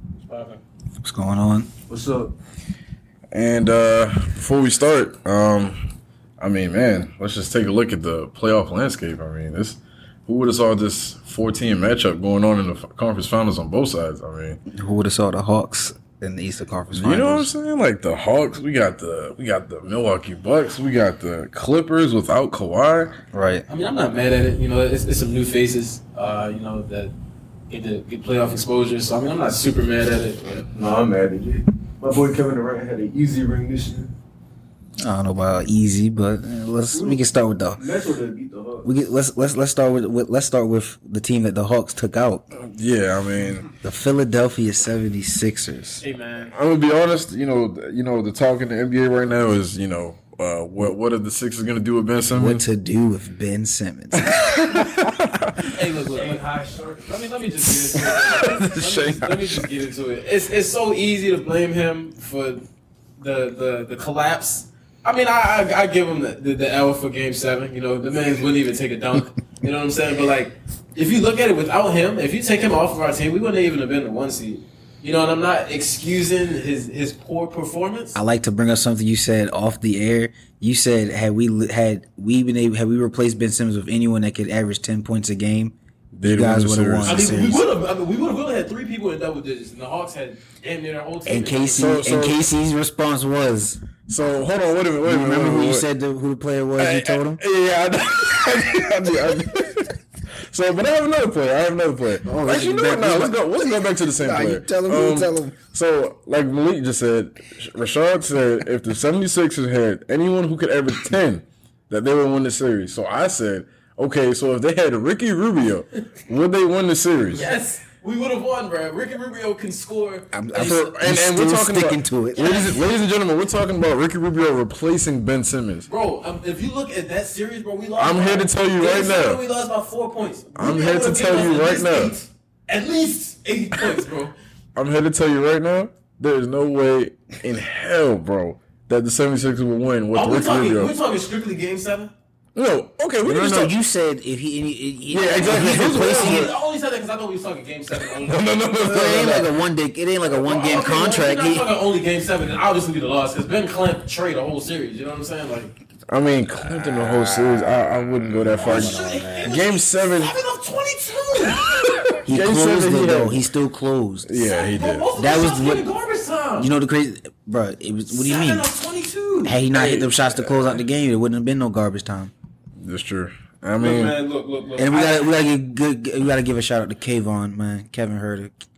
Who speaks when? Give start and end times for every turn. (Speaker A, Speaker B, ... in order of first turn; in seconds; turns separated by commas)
Speaker A: 0.2-0.6, Speaker B: 1.0-1.7, Speaker C: 1.9-2.3, Speaker D: 3.3-5.8, Speaker D: 6.4-14.6, Speaker B: 14.7-17.5, Speaker D: 16.9-23.2, Speaker B: 23.3-23.6, Speaker A: 23.7-27.1, Speaker A: 27.7-30.7, Speaker C: 30.7-34.1, Speaker B: 35.0-37.8, Speaker C: 36.9-37.2, Speaker C: 37.8-38.9, Speaker B: 38.8-42.4, Speaker D: 42.5-43.7, Speaker B: 43.8-46.0, Speaker A: 46.0-46.5, Speaker D: 46.5-52.6, Speaker B: 52.3-54.9, Speaker D: 54.2-55.7, Speaker A: 55.7-56.4, Speaker C: 56.1-57.2, Speaker A: 57.0-62.6, Speaker D: 57.7-59.6, Speaker A: 63.2-78.2, Speaker B: 78.1-87.6, Speaker D: 86.2-87.2, Speaker A: 87.0-91.8, Speaker B: 91.2-93.8, Speaker D: 91.7-92.4, Speaker D: 94.1-95.9, Speaker B: 95.0-97.4, Speaker D: 96.8-99.9, Speaker D: 100.5-117.5, Speaker B: 102.2-105.6, Speaker A: 117.3-120.8, Speaker B: 120.3-122.5, Speaker D: 120.5-125.9, Speaker A: 122.3-122.8, Speaker A: 125.9-134.3, Speaker D: 128.0-129.4, Speaker D: 130.6-132.1, Speaker D: 134.8-140.9, Speaker A: 140.1-142.1, Speaker D: 142.5-143.7, Speaker B: 143.2-146.5, Speaker D: 145.1-146.5, Speaker A: 145.5-148.9, Speaker D: 148.2-149.5, Speaker B: 148.8-151.7, Speaker A: 150.2-155.7, Speaker D: 156.1-160.3, Speaker B: 156.6-159.5, Speaker A: 158.6-162.0, Speaker D: 161.5-163.4, Speaker B: 162.2-164.3, Speaker D: 164.2-165.1, Speaker A: 164.4-166.7, Speaker B: 165.2-165.8, Speaker B: 166.6-168.7, Speaker A: 168.1-169.7, Speaker B: 169.4-172.3, Speaker D: 169.7-170.8, Speaker D: 172.8-174.2, Speaker A: 173.8-175.3, Speaker B: 174.8-178.5